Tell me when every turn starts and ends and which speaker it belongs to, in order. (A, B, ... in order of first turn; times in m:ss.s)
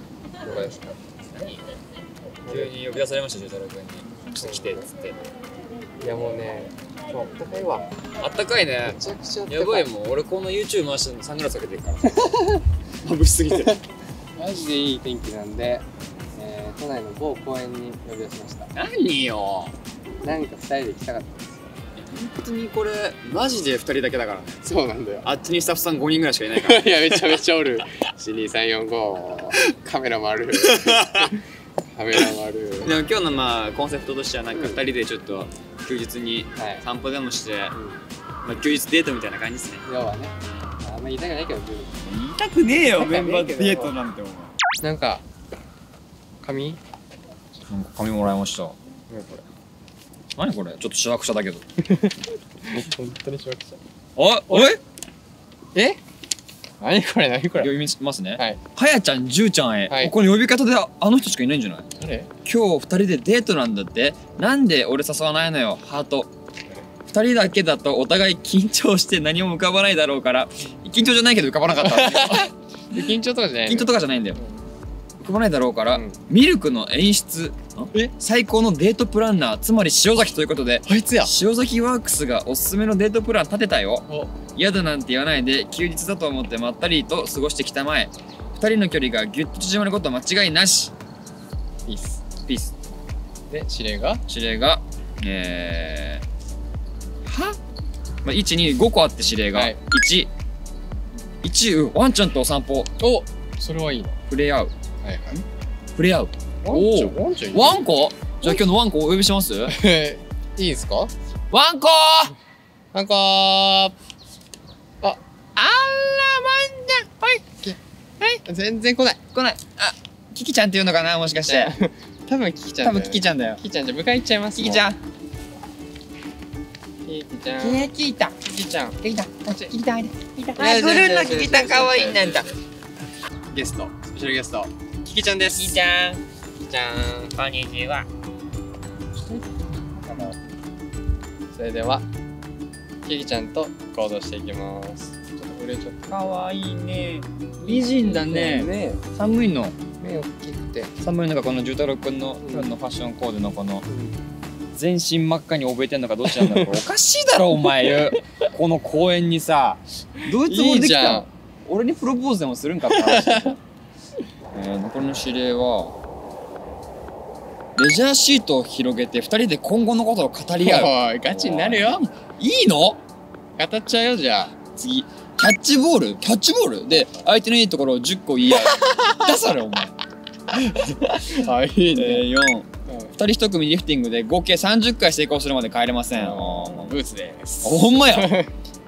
0:00.4-0:01.6 A
0:00.4-0:00.8 B
0:02.4-0:02.8 B
0:02.5-0:05.2 A
0:04.4-0:04.9 B
0:06.0-0:07.9 B
0:08.2-0:12.1 A
0:08.8-0:09.9 B
0:12.2-0:12.6 B
0:13.0-0:13.8 A
0:14.4-0:15.8 B
0:16.4-0:18.7 B
0:18.7-0:19.7 A
0:20.2-0:21.7 B
0:22.0-0:24.6 A
0:24.6-0:25.3 B
0:25.2-0:27.4 A
0:26.6-0:32.9 B
0:30.6-0:31.4 A
0:32.8-0:37.7 A
0:36.6-0:36.8 B
0:37.7-0:38.0 B
0:38.4-0:39.8 A
0:39.8-0:41.9 B
0:42.0-0:44.6 A
0:42.9-0:44.0 B
0:44.8-0:45.2 B
0:46.4-0:46.8 B
0:47.7-0:49.4 A
0:50.4-0:51.6 A
0:51.8-0:52.2 B
0:52.7-0:53.8 B
0:54.2-0:54.8 A
0:56.8-0:57.7 B
0:57.6-1:01.9 A
0:59.9-1:00.1 B
1:02.0-1:02.3 B
1:02.4-1:06.3 A
1:07.1-1:13.1 A
1:11.8-1:14.6 B
1:13.7-1:14.4 A
1:15.2-1:30.9 A
1:15.9-1:16.2 B
1:20.8-1:21.3 B
1:24.1-1:24.3 B
1:31.8-1:32.3 B
1:32.5-1:32.7 A
1:33.5-1:34.2 B
1:34.3-1:36.2 A
1:37.2-1:37.6 A
1:38.2-1:40.3 A
1:39.5-1:39.8 B
1:41.4-1:42.9 A
1:43.0-1:44.2 B
1:44.3-1:44.7 A
1:45.0-1:45.4 B
1:46.0-1:49.7 A
1:46.6-1:47.8 B
1:49.7-1:51.1 B
1:51.5-1:52.3 A
1:52.9-1:53.9 B
1:55.0-1:57.8 B
1:58.4-1:59.2 B
1:59.3-2:01.7 A
2:01.3-2:04.8 B
2:02.8-2:03.6 A
2:04.5-2:05.0 A
2:07.0-2:07.9 B
2:07.6-2:08.4 A
2:08.4-2:09.0 B
2:09.0-2:12.5 A
2:10.6-2:12.6 B
2:13.5-2:15.8 B
2:15.4-2:16.2 A
2:16.6-2:17.4 B
2:17.3-2:18.1 A
2:21.5-2:22.0 B
2:23.0-2:26.1 B
2:26.1-2:29.7 A
2:27.6-2:29.0 B
2:30.0-2:30.9 B
2:31.0-2:33.8 A
2:32.4-2:32.7 B
2:33.9-2:34.2 B
2:34.7-2:43.6 A
2:36.4-2:36.7 B
2:40.4-2:41.3 B
2:42.9-2:43.5 B
2:44.5-2:46.0 A
2:47.8-2:53.0 A
2:50.6-2:52.1 B
2:53.6-2:54.6 B
2:54.8-2:59.9 A
2:58.5-2:59.3 B
3:00.5-3:01.3 A
3:01.1-3:02.3 B
3:01.9-3:07.0 A
3:02.8-3:03.2 B
3:06.1-3:08.5 B
3:07.6-3:08.3 A